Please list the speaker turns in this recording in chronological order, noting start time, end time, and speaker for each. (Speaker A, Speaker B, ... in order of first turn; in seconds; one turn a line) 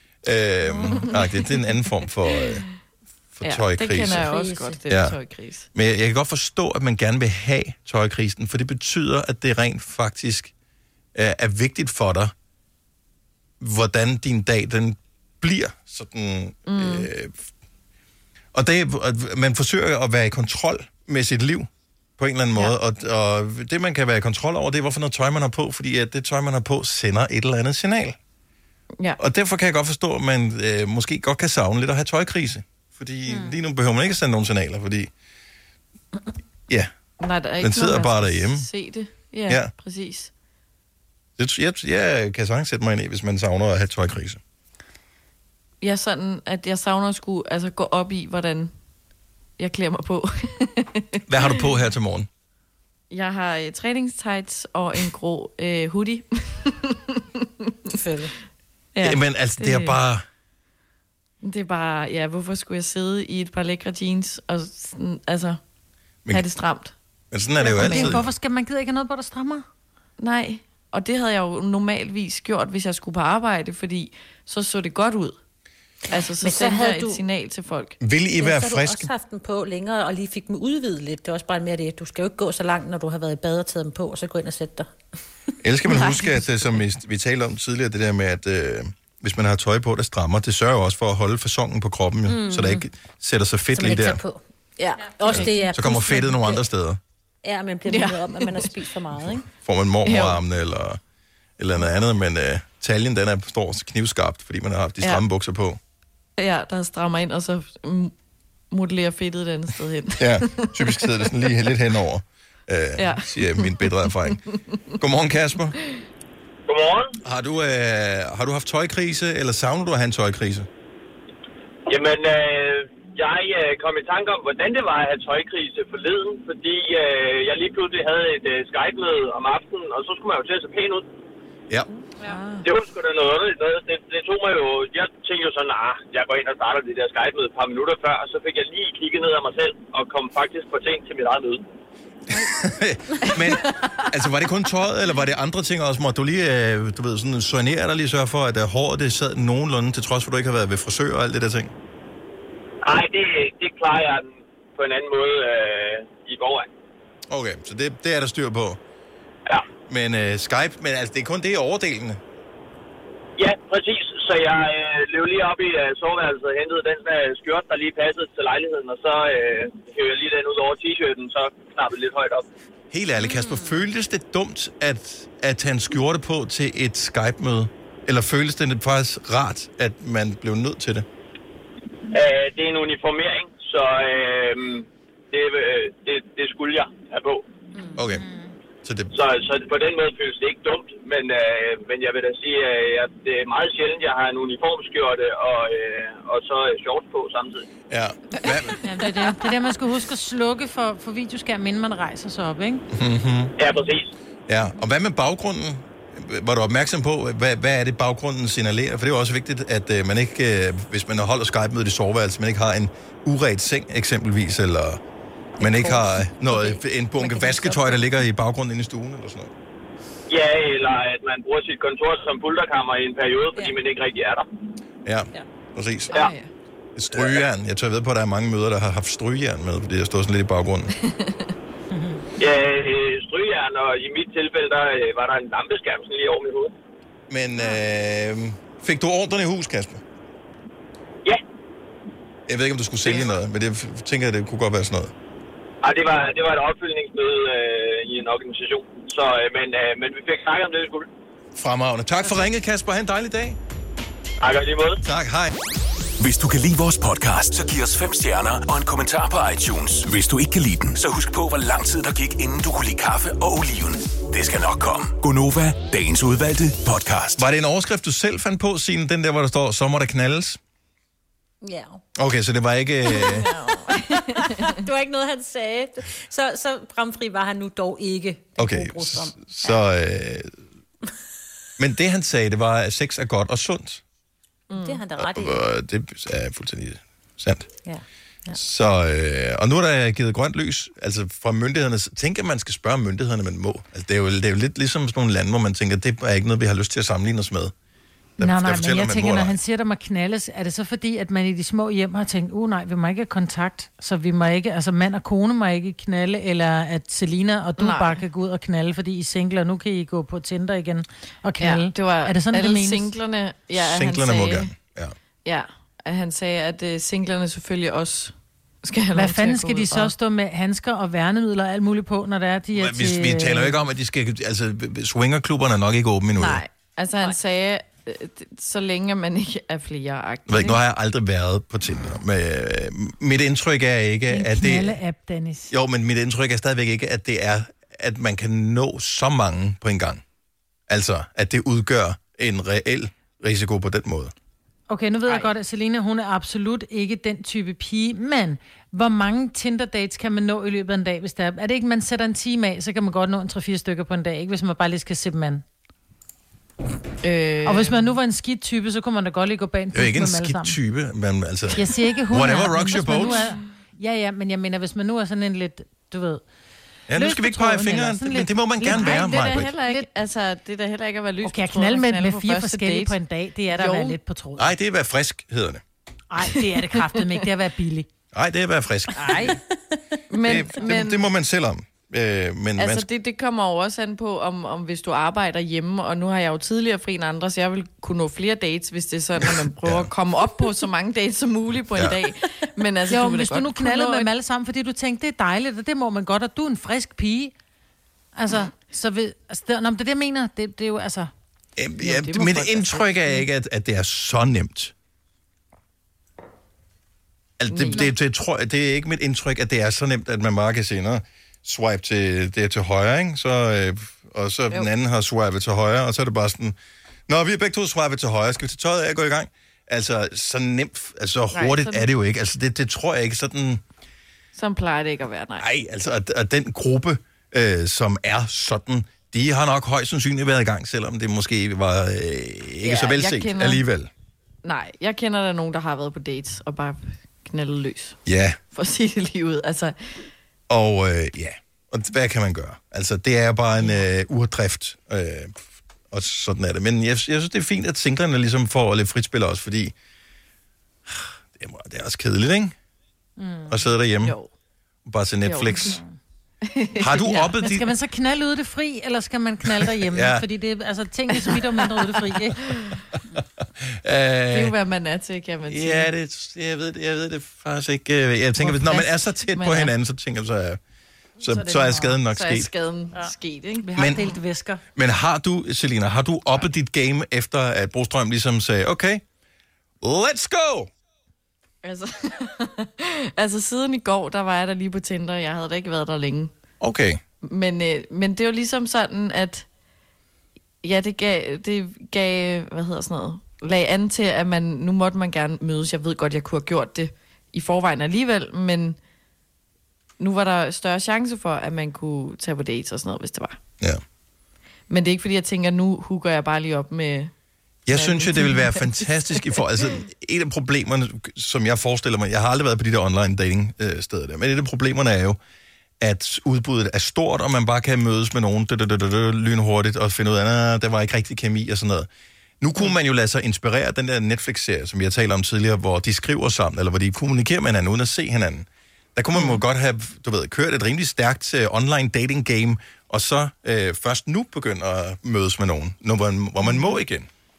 Speaker A: 0.2-2.6
Speaker B: 0.7-1.6
Speaker A: 3.3-4.3
Speaker B: 3.4-5.7
Speaker C: 4.1-4.8
Speaker A: 4.9-5.2
Speaker A: 5.7-10.5
Speaker A: 11.1-12.3
Speaker A: 13.6-17.4
Speaker B: 16.6-17.1
Speaker A: 18.5-28.2
Speaker A: 29.2-35.1
Speaker B: 37.2-40.3
Speaker A: 37.6-38.7
Speaker A: 41.4-44.4
Speaker B: 45.8-48.7
Speaker B: 49.6-51.5
Speaker A: 51.3-52.3
Speaker B: 53.1-57.4
Speaker C: 57.9-58.3
Speaker B: 58.9-60.0
Speaker A: 59.0-60.2
Speaker B: 61.4-65.6
Speaker B: 66.3-66.9
Speaker A: 67.3-68.2
Speaker D: 67.6-69.6
Speaker B: 67.7-68.2
Speaker B: 70.2-75.4
Speaker B: 76.1-78.0
Speaker C: 76.1-77.2
Speaker A: 78.0-79.1
Speaker C: 78.4-84.9
Speaker A: 85.6-94.2
Speaker B: 85.9-86.7
Speaker C: 92.3-92.8
Speaker C: 93.7-94.4
Speaker B: 94.8-95.7
Speaker C: 95.1-96.6
Speaker A: 95.3-97.0
Speaker C: 97.4-99.5
Speaker B: 97.9-98.7
Speaker A: 99.5-101.0
Speaker B: 100.0-100.4
Speaker A: 101.6-105.8
Speaker B: 106.4-108.1
Speaker B: 108.7-111.5
Speaker A: 110.2-114.4
Speaker B: 113.0-114.4
Speaker A: 115.0-115.8
Speaker E: 116.7-117.1
Speaker A: 117.2-120.7
Speaker E: 121.9-131.1
Speaker E: 132.6-141.6
Speaker A: 142.3-151.7
Speaker B: 143.2-143.9
Speaker E: 152.8-156.7
Speaker A: 157.3-158.8
Speaker A: 159.9-162.2
Speaker E: 163.4-172.4
Speaker A: 172.9-181.0
Speaker C: 173.2-173.6
Speaker E: 182.1-187.4
Speaker A: 187.9-188.2
Speaker D: 188.2-188.5
Speaker A: 188.8-189.1
Speaker E: 189.1-197.6
Speaker A: 197.9-198.7
Speaker D: 198.8-202.8
Speaker A: 202.9-203.5
Speaker E: 203.6-204.1
Speaker A: 204.5-215.0
Speaker C: 215.6-218.1
Speaker A: 215.6-219.5
Speaker E: 220.3-224.4
Speaker A: 225.0-226.2
Speaker B: 226.1-226.5
Speaker A: 226.9-230.9
Speaker B: 231.0-231.5
Speaker D: 231.9-232.2
Speaker E: 232.4-236.7
Speaker A: 237.3-240.0
Speaker A: 242.5-245.1
Speaker E: 245.8-251.1
Speaker A: 251.6-253.6
Speaker E: 254.4-255.0
Speaker A: 255.0-255.5
Speaker F: 256.2-267.4
Speaker A: 267.4-270.6
Speaker C: 271.6-272.0
Speaker A: 272.1-273.5
Speaker C: 273.1-279.8
Speaker B: 273.1-274.8
Speaker A: 278.6-280.5
Speaker A: 281.8-284.0
Speaker B: 284.7-285.0
Speaker C: 284.7-285.6
Speaker A: 285.2-287.7
Speaker C: 287.8-288.6
Speaker A: 288.5-297.7
Speaker A: 298.4-299.6
Speaker D: 298.4-313.1
Speaker B: 307.8-308.2
Speaker B: 311.6-314.7
Speaker A: 313.7-315.1
Speaker B: 315.4-320.1
Speaker D: 319.1-323.8
Speaker A: 322.7-326.6
Speaker B: 326.4-330.8
Speaker A: 330.5-335.0
Speaker D: 334.3-335.7
Speaker A: 335.7-340.2
Speaker A: 340.9-344.3
Speaker D: 344.9-355.6
Speaker B: 357.2-358.1
Speaker D: 357.6-360.8
Speaker A: 359.9-363.5
Speaker D: 361.7-366.4
Speaker A: 367.1-369.7
Speaker D: 367.1-370.1
Speaker B: 368.9-373.1
Speaker D: 371.4-374.7
Speaker B: 373.7-374.2
Speaker A: 374.6-375.8
Speaker D: 376.3-378.1
Speaker B: 377.0-377.3
Speaker A: 378.3-379.6
Speaker C: 379.3-380.2
Speaker B: 380.3-381.3
Speaker A: 380.4-383.1
Speaker B: 382.8-394.3
Speaker A: 389.8-390.1
Speaker D: 393.1-397.5
Speaker D: 398.3-401.3
Speaker A: 401.8-404.9
Speaker B: 402.0-403.4
Speaker A: 407.6-416.8
Speaker B: 407.7-408.1
Speaker A: 417.3-423.8
Speaker B: 421.5-422.1
Speaker B: 424.5-425.7
Speaker A: 425.6-434.1
Speaker B: 432.8-433.8
Speaker B: 434.6-438.2
Speaker A: 438.2-438.6
Speaker B: 438.7-440.3
Speaker A: 440.7-449.9
Speaker A: 451.1-452.7
Speaker D: 453.4-453.9
Speaker A: 453.7-454.3
Speaker B: 454.2-454.5
Speaker A: 455.0-456.0
Speaker B: 455.4-456.0
Speaker D: 455.8-456.1
Speaker B: 456.6-457.6
Speaker A: 457.0-457.9
Speaker D: 457.6-462.6
Speaker A: 460.0-460.4
Speaker B: 461.4-461.8
Speaker B: 462.7-463.0
Speaker A: 463.4-464.7
Speaker B: 464.5-466.1
Speaker A: 465.7-470.8
Speaker B: 468.6-469.9
Speaker A: 471.4-472.7
Speaker D: 471.5-472.2
Speaker B: 472.3-473.9
Speaker D: 473.8-474.8
Speaker A: 474.0-474.2
Speaker A: 474.9-479.2
Speaker A: 480.0-480.9
Speaker B: 481.8-486.5
Speaker A: 486.8-487.2
Speaker B: 487.5-489.6
Speaker B: 490.8-499.0
Speaker B: 500.2-503.6
Speaker B: 504.9-507.3
Speaker A: 507.9-515.4
Speaker B: 507.9-509.0
Speaker A: 516.0-522.1
Speaker A: 522.6-537.3
Speaker B: 529.3-529.6
Speaker B: 536.6-536.9